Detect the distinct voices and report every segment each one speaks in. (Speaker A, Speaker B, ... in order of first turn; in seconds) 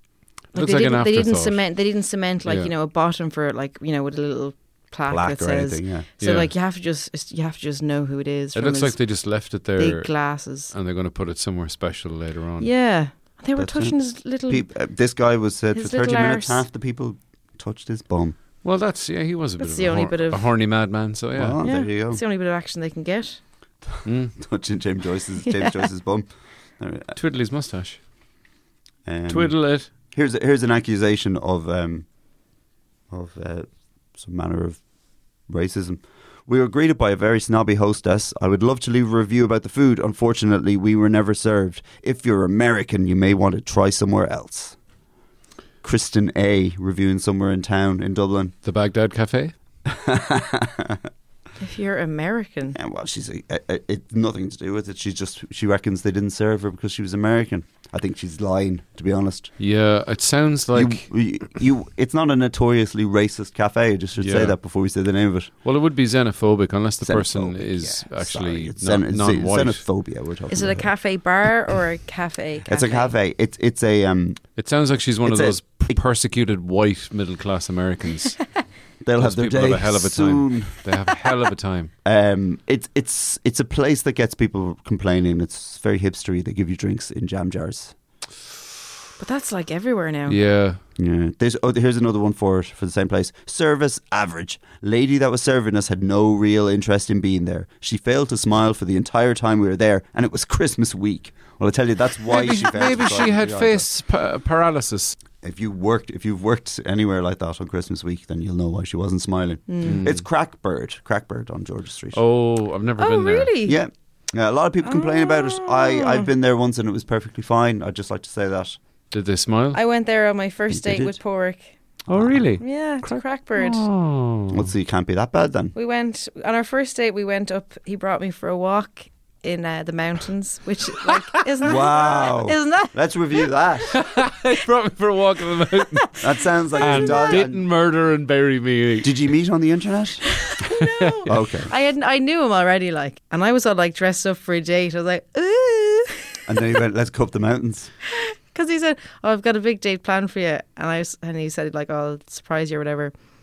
Speaker A: 0.5-1.6, 2.5-2.7, 6.2-6.5, 8.6-12.7, 18.6-21.6, 24.1-24.4, 27.1-28.0, 29.3-29.9, 48.6-49.5, 59.6-61.1, 64.2-64.5, 65.6-69.8, 74.6-78.5, 79.2-81.9, 90.3-90.8, 102.3-105.2, 109.8-110.2, 112.1-113.5, 119.1-119.8, 122.1-124.7, 133.9-139.1, 140.8-141.2
Speaker B: 0.5-9.1, 9.8-10.7, 12.6-14.7, 15.7-16.7, 19.6-20.5, 21.6-23.4, 51.6-52.8, 70.5-73.2, 89.2-90.4, 109.7-110.0, 113.0-113.8, 114.8-116.3, 119.7-121.8, 122.6-123.9, 125.7-132.9, 136.8-137.5, 140.4-146.5, 148.1-153.1
Speaker C: 5.1-6.1, 13.6-14.0, 14.5-18.4, 21.4-22.2, 23.9-26.3, 26.8-27.2, 29.1-32.1, 33.1-34.8, 35.5-44.8, 45.8-48.5, 49.9-51.1, 52.8-59.6, 60.7-65.5, 67.0-70.9, 72.7-74.5, 75.2-76.0, 79.0-80.8, 82.0-88.0, 91.0-103.9, 105.4-112.2, 113.7-118.8, 120.7-121.2, 122.1-122.4, 124.5-125.7, 131.6-134.0, 136.2-137.7, 139.0-140.4, 141.3-141.7, 146.5-147.9